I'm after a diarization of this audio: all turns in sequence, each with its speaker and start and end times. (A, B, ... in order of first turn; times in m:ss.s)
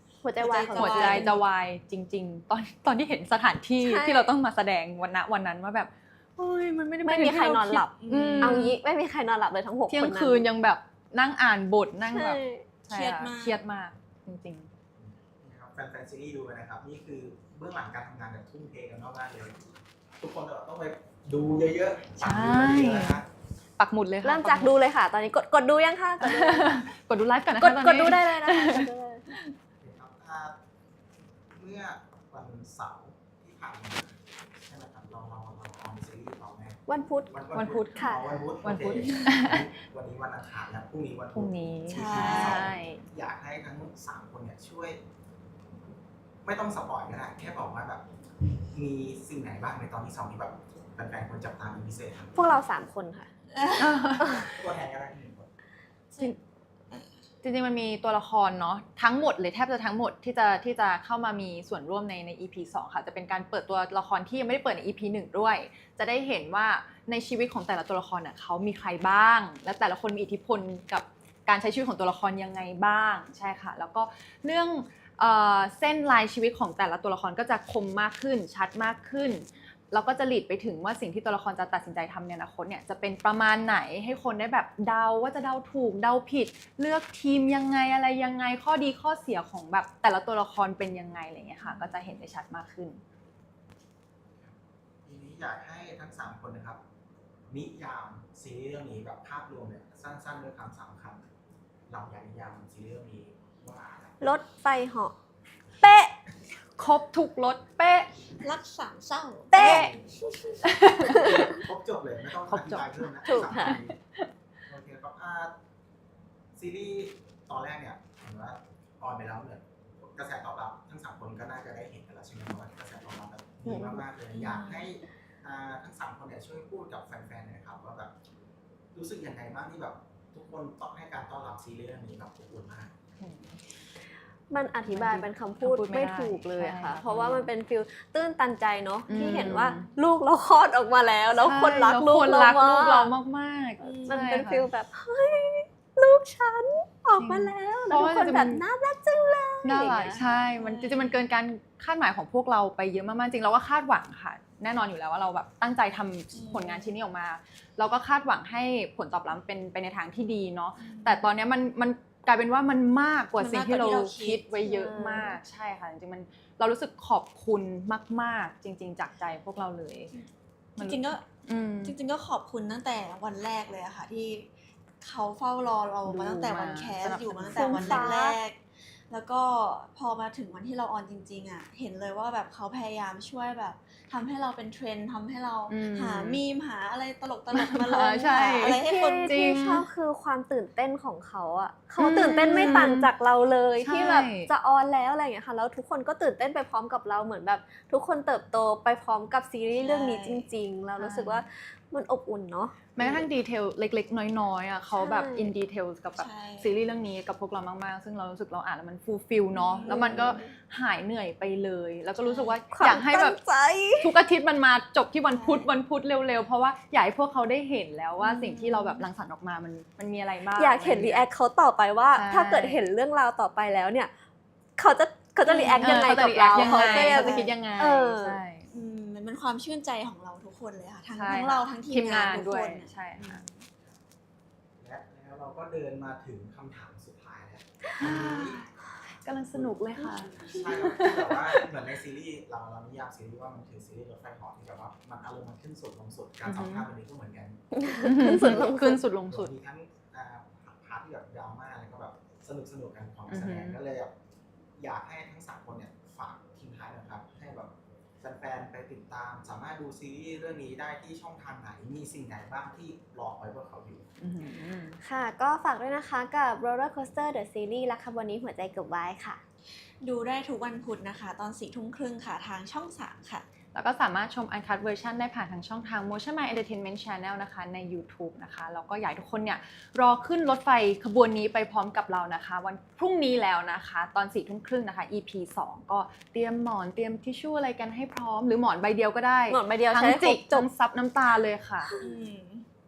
0:00.2-0:01.4 A
0:00.4-0:01.4 B
0:00.7-0:08.8 C
0:03.8-0:04.3 A
0:07.0-0:10.4 A
0:08.0-0:08.7 B
0:09.9-0:14.7 C
0:12.1-0:12.7 A
0:12.9-0:13.6 B
0:15.0-0:19.6 D
0:20.2-0:23.2 D
0:22.2-0:23.2 C
0:23.8-0:24.7 C
0:24.2-0:26.8 A
0:26.2-0:29.4 C
0:27.6-0:29.3 A
0:29.8-0:30.6 D
0:31.6-0:45.0 D
0:36.9-0:37.3 A
0:37.5-0:39.7 C
0:37.9-0:38.2 A
0:41.3-0:43.0 C
0:41.9-0:42.7 B
0:46.4-0:48.0 D
0:48.7-0:52.3 D
0:52.3-0:53.3 A
0:53.5-0:54.5 B
0:53.8-0:54.4 C
0:54.2-0:55.5 D
0:57.4-1:33.0 C
1:31.6-1:31.9 B
1:34.4-1:36.8 D
1:37.5-1:41.2 D
1:41.9-1:44.2 D
1:44.2-1:45.1 A
1:45.8-1:46.1 C
1:46.8-1:48.1 C
1:48.4-1:49.6 B
1:49.5-1:51.2 A
1:49.5-1:49.9 C
1:49.6-1:50.1 D
1:50.6-1:51.4 C
1:51.0-1:54.0 D
1:52.5-1:54.2 C
1:53.2-1:53.8 A
1:54.7-1:55.5 D
1:56.5-2:08.1 D
2:03.7-2:04.0 A
2:04.3-2:04.9 B
2:08.9-2:12.9 D
2:13.2-2:13.6 C
2:14.5-2:23.1 A
2:14.9-2:17.5 C
2:19.1-2:19.9 C
2:21.4-2:24.7 C
2:23.8-2:24.2 B
2:24.1-2:30.2 A
2:27.2-2:28.6 C
2:29.6-2:50.1 C
2:30.2-2:31.2 B
2:36.3-2:36.9 B
2:40.8-2:41.3 B
2:43.4-2:45.3 B
2:44.6-2:45.4 A
2:50.1-2:51.2 B
2:50.8-2:52.0 C
2:51.8-2:54.5 B
2:55.0-3:09.3 B
2:56.1-2:58.2 C
2:57.6-2:58.4 A
3:05.7-3:06.4 C
3:07.5-3:09.8 C
3:08.8-3:22.8 A
3:12.0-3:13.1 C
3:12.2-3:12.8 B
3:13.8-3:14.5 C
3:19.8-3:20.4 B
3:21.0-3:21.4 C
3:23.0-3:33.4 C
3:23.0-3:23.3 B
3:25.0-3:25.5 A
3:26.2-3:26.8 B
3:29.5-3:30.5 B
3:29.8-3:30.4 A
3:32.2-3:32.6 B
3:32.7-3:34.1 A
3:34.0-3:41.2 C
3:35.3-3:35.7 B
3:38.2-3:39.0 B
3:40.6-3:44.1 A
3:42.1-3:42.8 C
3:44.8-3:48.4 A
3:45.5-3:47.6 B
3:45.8-3:48.7 C
3:48.7-3:53.6 B
3:51.2-3:53.4 C
3:54.8-3:58.6 D
3:58.0-4:01.6 C
4:00.0-4:01.1 B
4:00.4-4:07.6 D
4:06.4-4:06.8 C
4:07.7-4:09.0 A
4:08.0-4:09.5 C
4:09.3-4:14.1 D
4:13.3-4:13.8 C
4:14.8-4:24.1 D
4:24.2-4:25.0 C
4:25.0-4:29.4 A
4:30.0-4:33.4 B
4:33.7-4:51.9 C
4:49.5-4:50.7 A
4:52.0-4:52.6 B